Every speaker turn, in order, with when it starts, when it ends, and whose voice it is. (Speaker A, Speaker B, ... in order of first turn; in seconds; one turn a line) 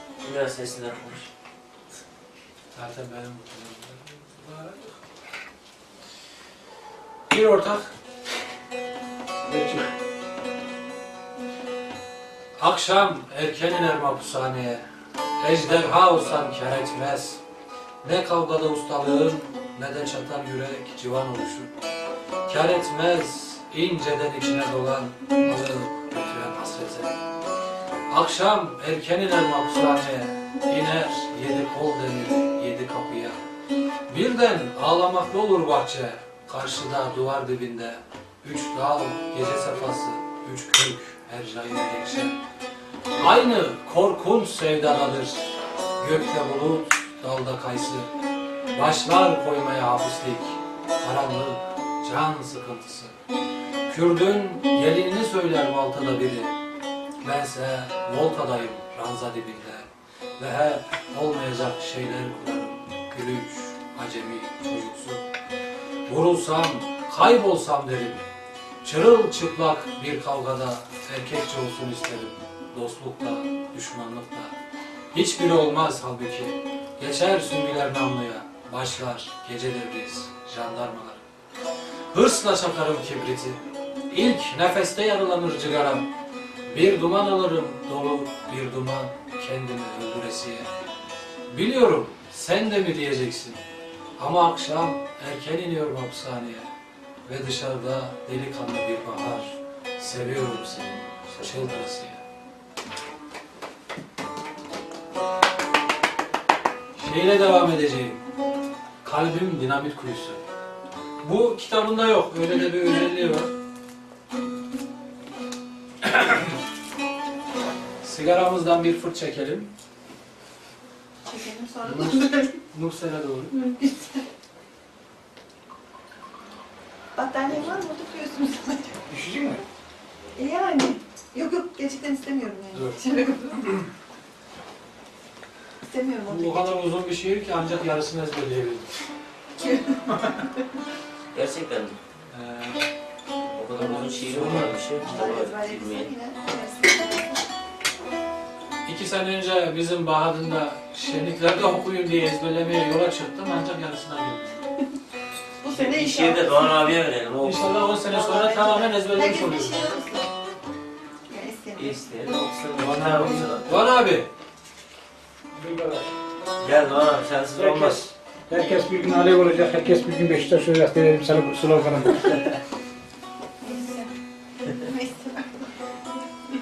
Speaker A: 0.2-1.3
Speaker B: 2.7-5.0
Speaker B: 7.3-7.9
Speaker C: 9.4-9.8
Speaker B: 12.6-14.8
Speaker B: 15.4-17.4
Speaker B: 18.0-21.7
Speaker B: 22.4-27.2
Speaker B: 28.1-33.4
Speaker B: 34.1-42.3
Speaker B: 43.2-48.1
Speaker B: 48.7-53.1
Speaker B: 53.9-56.5
Speaker B: 57.2-65.2
Speaker B: 66.0-68.2
Speaker B: 68.8-74.5
Speaker B: 75.1-81.2
Speaker B: 82.1-86.1
Speaker B: 86.7-90.7
Speaker B: 91.5-93.6
Speaker B: 94.2-96.7
Speaker B: 97.2-102.2
Speaker B: 107.0-108.2
Speaker B: 109.0-110.4
Speaker B: 111.2-113.5
Speaker B: 116.0-116.5
Speaker B: 118.0-119.7
Speaker D: 121.2-122.5
Speaker B: 121.8-123.6
Speaker D: 123.5-124.2
Speaker D: 127.2-129.0
Speaker C: 129.1-129.6
Speaker D: 130.3-133.8
Speaker B: 132.7-133.0
Speaker D: 135.8-136.7
Speaker B: 136.3-138.9
Speaker D: 139.6-140.3
Speaker A: 141.3-142.0
Speaker B: 142.3-142.9
Speaker A: 143.4-146.1
Speaker B: 143.7-145.3
Speaker D: 145.0-147.4
Speaker B: 148.8-154.6
Speaker D: 155.6-156.8
Speaker A: 155.6-157.7
Speaker B: 157.4-159.8
Speaker D: 158.0-160.3
Speaker D: 161.3-162.0
Speaker A: 161.7-163.8
Speaker B: 162.8-164.3
Speaker C: 165.5-166.1
Speaker A: 166.6-168.1
Speaker C: 167.5-172.4
Speaker D: 173.6-174.1
Speaker D: 174.7-175.7